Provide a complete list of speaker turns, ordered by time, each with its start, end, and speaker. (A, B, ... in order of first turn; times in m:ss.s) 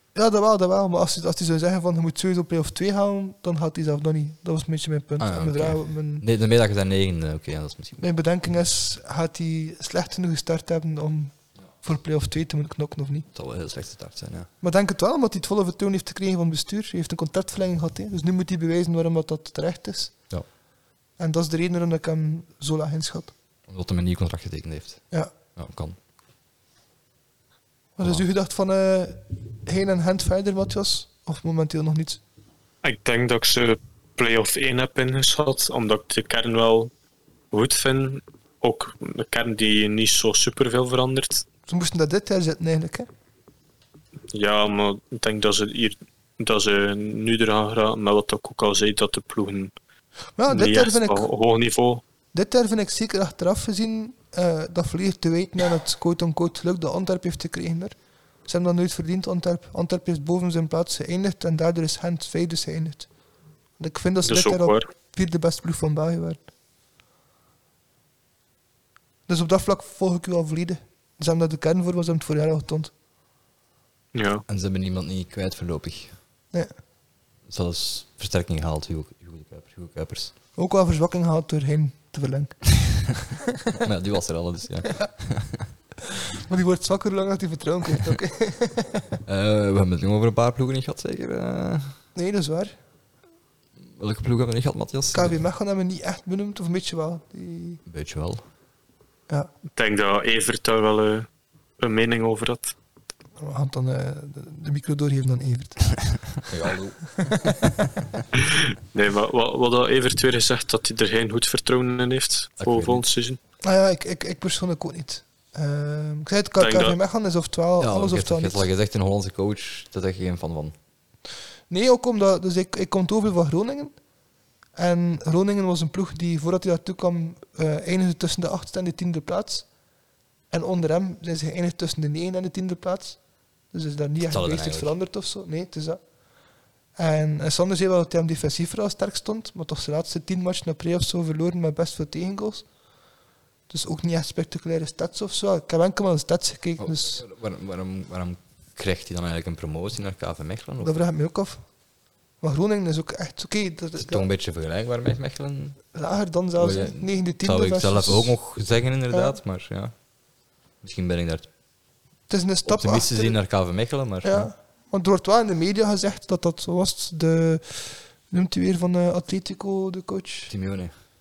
0:00.1-0:06.2 A
0:05.2-0:08.0 B
0:08.0-0:13.3 A
0:13.3-0:14.5 B
0:14.6-0:20.2 A
0:21.2-0:23.3 A
0:23.7-0:26.0 B
0:28.0-0:32.2 A
0:32.8-0:36.9 C
0:37.5-0:41.4 C
0:41.7-0:43.1 A
0:44.3-0:49.7 C
0:50.4-0:51.3 A
0:50.5-0:52.0 C
0:52.3-1:03.1 A
1:03.8-1:06.5 A
1:04.2-1:04.9 C
1:09.3-1:12.9 A
1:14.1-1:14.4 C
1:14.5-1:16.2 B
1:17.5-1:20.3 B
1:20.6-1:22.8 A
1:23.8-1:25.7 B
1:26.3-1:29.2 A
1:29.2-1:31.9 B
1:32.1-1:32.7 A
1:33.9-1:35.4 B
1:35.1-1:37.8 A
1:37.8-1:38.4 B
1:39.7-1:41.3 C
1:41.8-1:42.7 C
1:43.4-1:45.9 A
1:46.4-1:47.7 B
1:47.2-1:47.6 A
1:48.4-1:53.4 C
1:52.6-1:53.0 B
1:53.6-1:58.6 A
1:56.6-1:56.9 C
1:57.8-2:00.7 B
2:01.7-2:03.9 A
2:04.8-2:09.6 A
2:10.5-2:13.2 A
2:13.7-2:16.0 A
2:14.2-2:15.0 B
2:17.0-2:22.7 A
2:23.7-2:27.2 A
2:26.8-2:30.9 B
2:30.8-2:31.6 A
2:32.4-2:34.2 A
2:34.0-2:35.8 B
2:35.9-2:38.4 A
2:36.6-2:39.9 B
2:39.1-2:39.4 A
2:40.8-2:41.5 B
2:42.3-2:43.3 A
2:42.6-2:44.5 B
2:44.2-2:50.5 A
2:50.5-2:50.9 B